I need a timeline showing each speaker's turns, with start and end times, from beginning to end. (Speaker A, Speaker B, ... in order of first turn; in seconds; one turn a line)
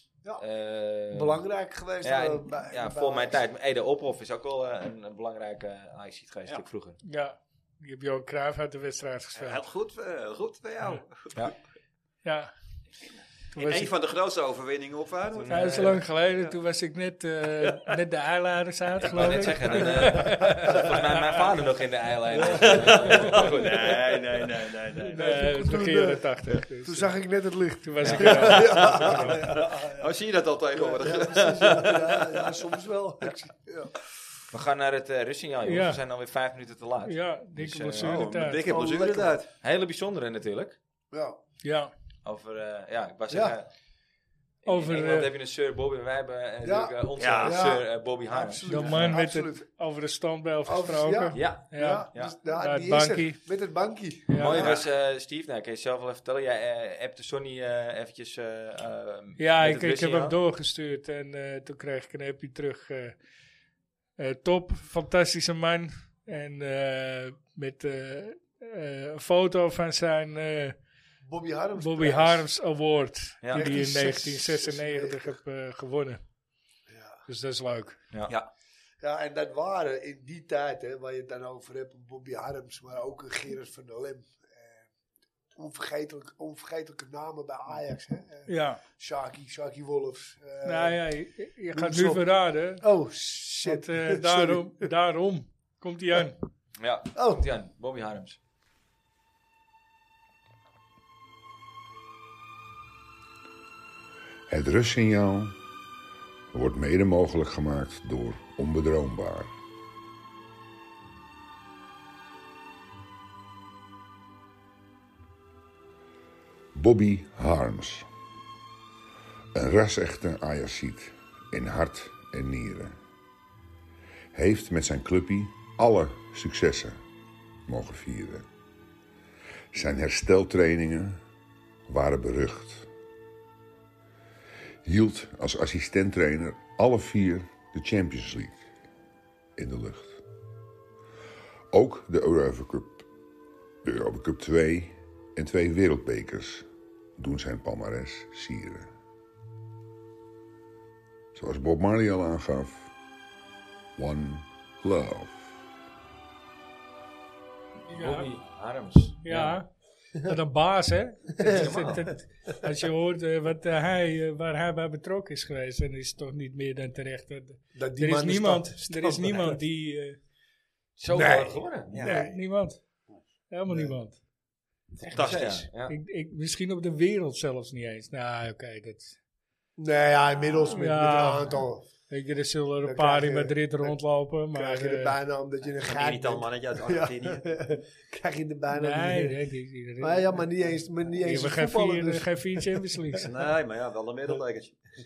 Speaker A: 0.4-1.4
Speaker B: 1.1-3.4
Speaker A: 2.0-7.0
Speaker C: 7.0-9.6
Speaker D: 9.3-11.4
Speaker C: 12.2-12.5
Speaker C: 13.6-13.9
Speaker D: 13.6-16.5
Speaker A: 15.3-16.0
Speaker C: 15.5-21.0
Speaker A: 19.0-24.1
Speaker B: 20.1-20.8
Speaker D: 22.4-25.4
Speaker B: 22.4-23.2
Speaker C: 25.1-27.2
Speaker B: 25.1-30.1
Speaker C: 27.8-29.4
Speaker D: 28.1-32.6
Speaker B: 30.7-33.9
Speaker A: 34.5-38.3
Speaker C: 35.6-36.0
Speaker C: 37.1-38.7
Speaker D: 38.0-39.5
Speaker B: 38.7-39.4
Speaker A: 39.6-40.8
Speaker B: 41.1-41.4
Speaker C: 41.6-41.9
Speaker A: 42.2-43.7
Speaker B: 43.3-43.6
Speaker A: 44.6-49.1
Speaker C: 44.6-45.3
Speaker B: 46.6-49.7
Speaker D: 47.2-47.7
Speaker C: 48.7-53.4
Speaker B: 50.6-54.8
Speaker A: 51.3-52.4
Speaker C: 54.3-54.7
Speaker A: 54.4-60.4
Speaker D: 54.5-54.9
Speaker C: 59.4-63.2
Speaker C: 64.2-70.8
Speaker B: 71.2-72.5
Speaker C: 71.8-76.2
Speaker A: 73.4-73.7
Speaker B: 73.5-75.4
Speaker B: 76.9-77.2
Speaker C: 77.3-78.0
Speaker A: 78.1-78.4
Speaker B: 79.0-84.9
Speaker B: 85.5-91.0
Speaker C: 88.5-88.8
Speaker C: 90.6-92.8
Speaker B: 91.7-94.9
Speaker C: 93.6-96.4
Speaker A: 96.8-98.4
Speaker B: 97.2-97.5
Speaker E: 104.5-105.6
Speaker E: 106.5-109.5
Speaker E: 116.8-118.1
Speaker E: 119.5-123.0
Speaker E: 124.3-127.0
Speaker E: 127.7-128.5
Speaker E: 129.7-131.2
Speaker E: 131.9-132.9
Speaker E: 134.8-138.7
Speaker E: 139.6-140.2
Speaker E: 141.7-143.1
Speaker E: 143.8-146.7
Speaker E: 147.2-148.9
Speaker E: 151.3-152.9
Speaker E: 154.0-155.6
Speaker C: 157.9-158.3
Speaker A: 157.9-159.6
Speaker C: 159.2-159.7
Speaker C: 160.2-170.2
Speaker B: 161.4-162.0
Speaker A: 161.4-162.1
Speaker B: 167.8-169.6
Speaker A: 171.0-172.1
Speaker B: 171.1-172.4
Speaker D: 171.9-172.2
Speaker C: 172.1-172.8
Speaker C: 173.5-174.2
Speaker B: 173.7-173.9
Speaker D: 175.0-175.7
Speaker A: 175.0-176.0
Speaker C: 175.9-179.2
Speaker B: 179.8-181.8
Speaker C: 180.7-185.2
Speaker B: 182.8-184.0
Speaker B: 184.5-189.4
Speaker D: 185.8-187.5
Speaker C: 188.7-190.4
Speaker B: 190.0-193.2
Speaker C: 191.2-193.3
Speaker D: 193.2-194.8